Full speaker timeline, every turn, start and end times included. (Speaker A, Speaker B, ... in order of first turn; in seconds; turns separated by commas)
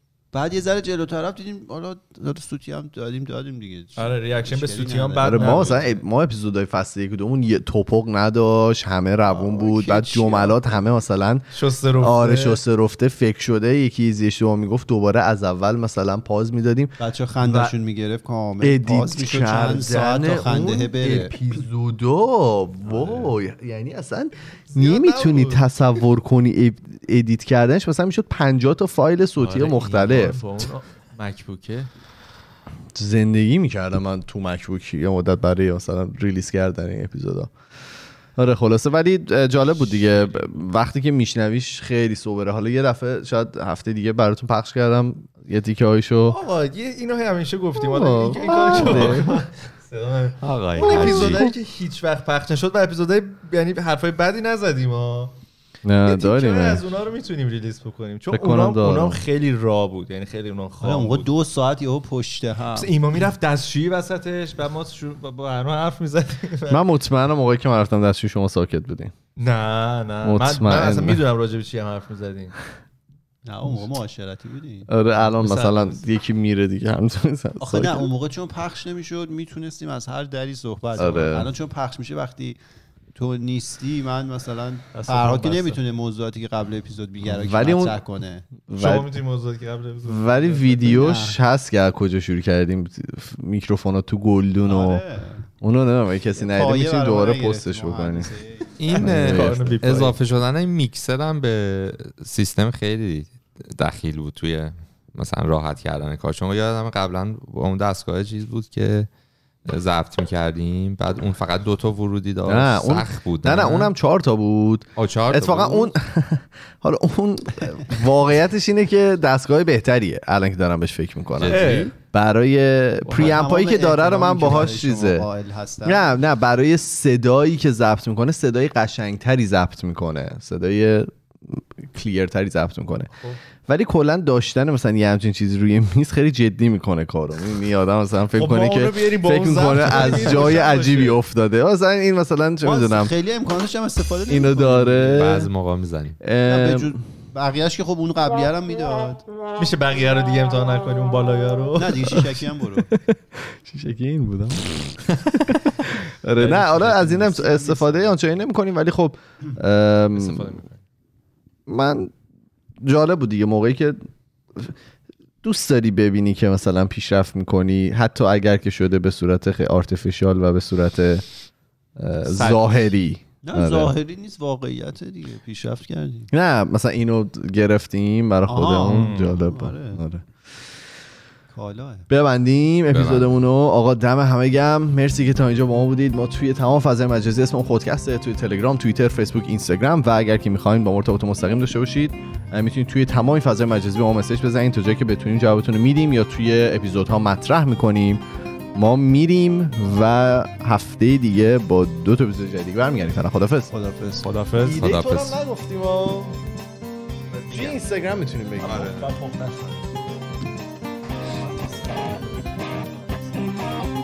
Speaker A: 0.3-5.8, Speaker B: 4.0-6.0, Speaker C: 5.2-17.7, Speaker A: 9.3-10.6, Speaker B: 11.5-12.6, Speaker A: 17.0-21.3, Speaker C: 18.6-30.4, Speaker B: 22.9-23.3, Speaker B: 24.7-25.7, Speaker B: 29.4-31.9, Speaker C: 32.9-37.5, Speaker C: 38.4-46.4, Speaker B: 39.9-40.5, Speaker B: 46.3-55.3, Speaker C: 47.8-49.4, Speaker D: 50.4-51.5, Speaker C: 50.9-51.5, Speaker C: 55.8-56.8, Speaker B: 56.0-61.3, Speaker C: 58.3-59.2, Speaker A: 60.8-63.3, Speaker B: 62.7-66.8, Speaker C: 66.7-69.1, Speaker B: 69.4-72.5, Speaker C: 70.2-71.2, Speaker A: 73.4-74.9, Speaker C: 74.9-78.1, Speaker B: 75.2-76.0, Speaker A: 77.6-82.6, Speaker C: 81.0-81.5, Speaker A: 83.1-88.5, Speaker B: 84.9-85.8, Speaker C: 87.2-88.0, Speaker C: 88.7-89.1, Speaker B: 88.7-90.8, Speaker C: 90.0-95.0, Speaker A: 90.8-91.4, Speaker A: 94.6-95.5, Speaker C: 95.6-98.3, Speaker A: 96.3-98.8, Speaker D: 98.8-109.1, Speaker B: 98.9-100.2, Speaker C: 98.9-100.1, Speaker D: 109.6-113.9, Speaker C: 112.4-125.3, Speaker D: 115.0-115.9, Speaker D: 121.4-121.9, Speaker B: 121.4-121.9, Speaker B: 123.0-123.4, Speaker A: 123.1-126.2, Speaker C: 125.8-133.1, Speaker C: 133.7-143.1, Speaker B: 138.3-141.2, Speaker A: 142.6-145.3, Speaker C: 144.3-145.5, Speaker D: 145.1-146.2, Speaker C: 146.2-147.0, Speaker A: 146.5-149.2, Speaker B: 149.6-152.3, Speaker A: 151.8-152.9, Speaker C: 152.8-160.6, Speaker B: 156.4-157.3, Speaker A: 157.3-158.1, Speaker B: 160.1-160.8, Speaker C: 161.7-162.1, Speaker C: 162.8-164.0, Speaker C: 165.4-171.2, Speaker C: 172.0-173.9, Speaker B: 172.2-172.9, Speaker A: 173.4-176.3, Speaker C: 176.3-180.2, Speaker A: 178.5-180.0, Speaker B: 178.8-179.4, Speaker A: 181.5-182.1, Speaker C: 182.1-198.2, Speaker D: 182.9-183.3, Speaker C: 198.7-203.7, Speaker A: 203.7-204.3, Speaker B: 204.2-204.8, Speaker C: 204.6-206.4, Speaker D: 204.7-205.4, Speaker A: 207.3-207.8, Speaker C: 207.5-209.1, Speaker B: 208.6-209.8, Speaker A: 211.3-213.4